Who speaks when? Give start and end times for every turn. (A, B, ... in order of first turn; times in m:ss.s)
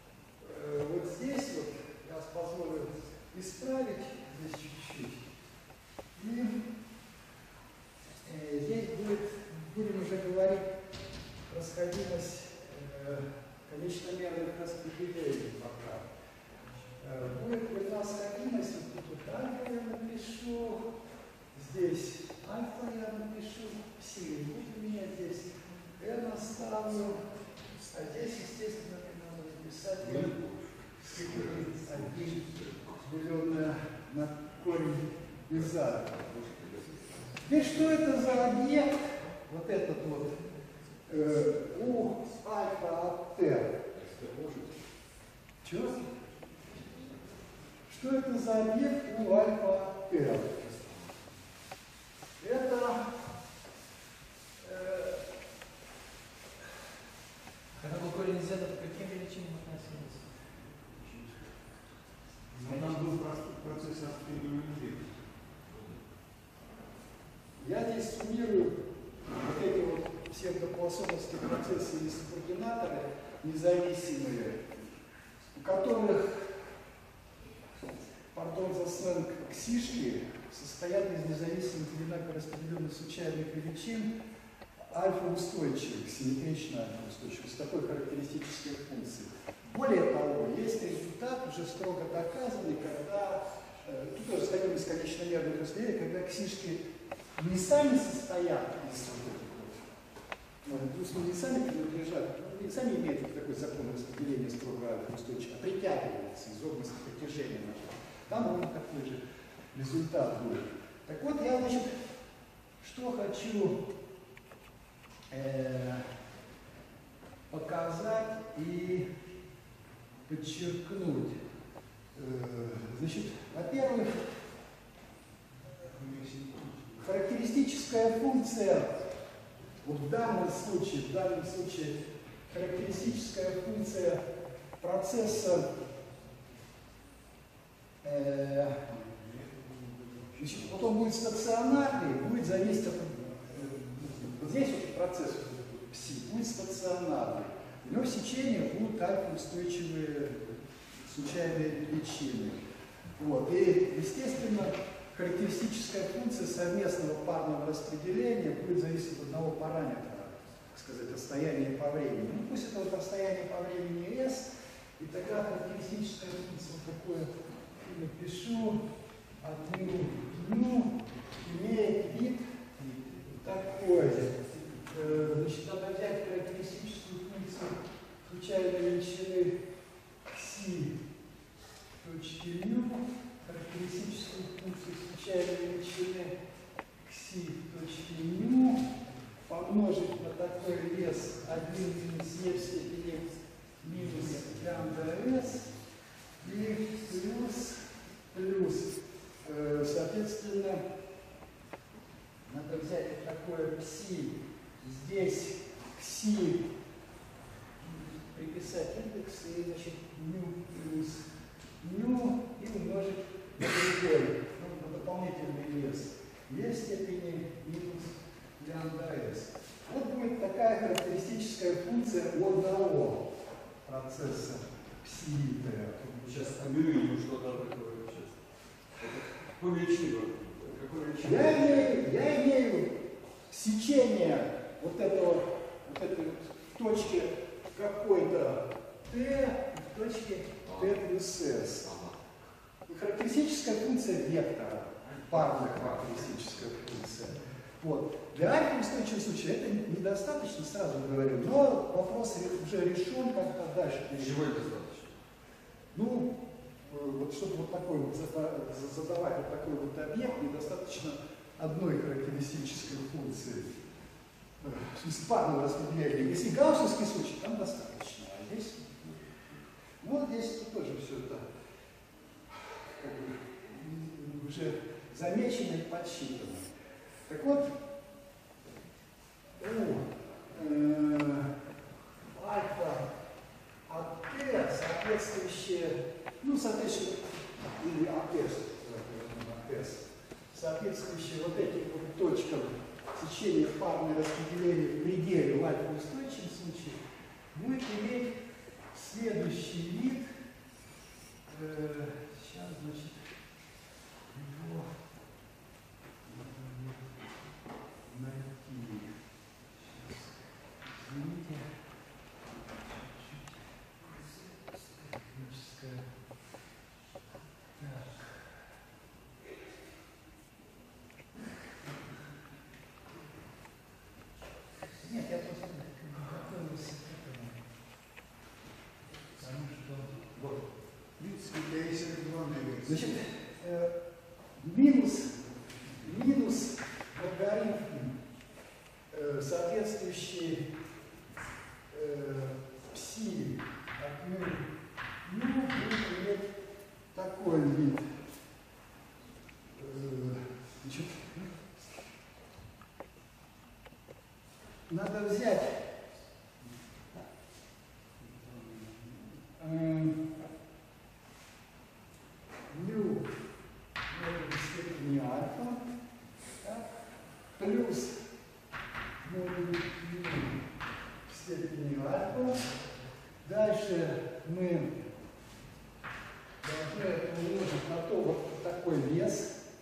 0:00.4-0:05.3 A
0:06.2-0:06.6 A
0:08.2-0:10.7 A
0:11.5-0:16.1 A
0:17.0-0:20.8 A
0:21.5-0:27.2 A
0:27.8-0:30.4 A
0:30.0-0:33.0 B
0:31.0-0:36.1 A
0:35.5-0:37.3 B
0:37.4-0:40.4 A
0:41.1-0:43.7 A
0:43.9-0:44.8 B
0:45.6-0:46.1 A
0:47.9-0:50.6 A
0:50.6-0:51.2 B
0:52.4-0:53.1 A
0:54.6-0:55.2 A
0:57.8-1:00.2 C
1:02.5-1:05.2 D
1:02.7-1:03.0 C
1:07.6-1:14.7 A
1:15.6-1:16.5 A
1:18.3-1:24.1 A
1:24.9-1:36.8 A
1:37.4-1:39.9 A
1:40.6-1:49.2 A
1:49.7-1:52.0 A
1:52.8-1:53.8 A
1:55.3-1:56.1 A
1:57.5-1:59.1 A
2:00.3-2:01.4 A
2:02.1-2:04.2 A
2:05.9-2:07.0 D
2:07.0-2:09.0 A
2:09.8-2:12.0 A
2:12.5-2:14.2 A
2:14.8-2:15.7 A
2:18.0-2:18.9 A
2:19.1-2:20.4 D
2:20.4-2:32.6 A
2:33.2-2:48.8 A
2:49.4-2:52.5 A
2:53.4-2:54.3 A
2:54.9-2:59.6 A
3:00.3-3:01.0 A
3:02.0-3:06.3 A
3:07.0-3:08.8 A
3:09.5-3:13.3 A
3:13.8-3:15.7 A
3:16.4-3:20.8 A
3:22.4-3:26.7 A
3:27.8-3:31.2 A
3:31.8-3:43.3 A
3:43.8-3:47.1 A
3:46.3-3:48.4 B
3:49.0-3:52.0 B
3:51.2-3:53.0 A
3:53.5-4:02.0 A
4:00.6-4:00.9 B
4:01.8-4:02.1 B
4:02.9-4:14.4 A
4:05.0-4:06.6 B
4:14.2-4:15.1 B
4:15.9-4:23.8 A
4:24.6-4:29.4 A
4:30.0-4:31.5 A
4:32.5-4:36.7 A
4:37.3-4:37.7 A
4:39.6-4:41.5 A
4:42.3-4:43.1 A
4:43.9-4:57.0 A
4:57.5-4:58.4 A
4:58.9-5:00.3 A
5:01.5-5:03.3 A
5:04.3-5:04.9 A
5:06.2-5:07.2 A
5:08.1-5:09.1 A
5:09.8-5:11.7 A
5:12.9-5:16.1 A
5:17.8-5:18.4 A
5:25.0-5:27.6 A
5:29.4-5:30.6 A
5:31.2-5:33.2 D
5:32.9-5:33.9 A
5:34.6-5:35.4 A
5:36.0-5:38.2 A
5:39.1-5:40.7 A
5:41.9-5:44.7 A
5:45.2-5:46.5 A
5:47.1-5:48.1 A
5:49.7-5:51.5 A
5:54.9-5:55.8 A
5:58.2-6:00.5 A
6:02.7-6:03.3 A
6:04.1-6:05.8 A
6:06.6-6:06.9 A
6:07.6-6:08.2 A
6:09.2-6:10.6 A
6:11.3-6:12.6 A
6:13.4-6:14.9 A
6:16.6-6:19.6 A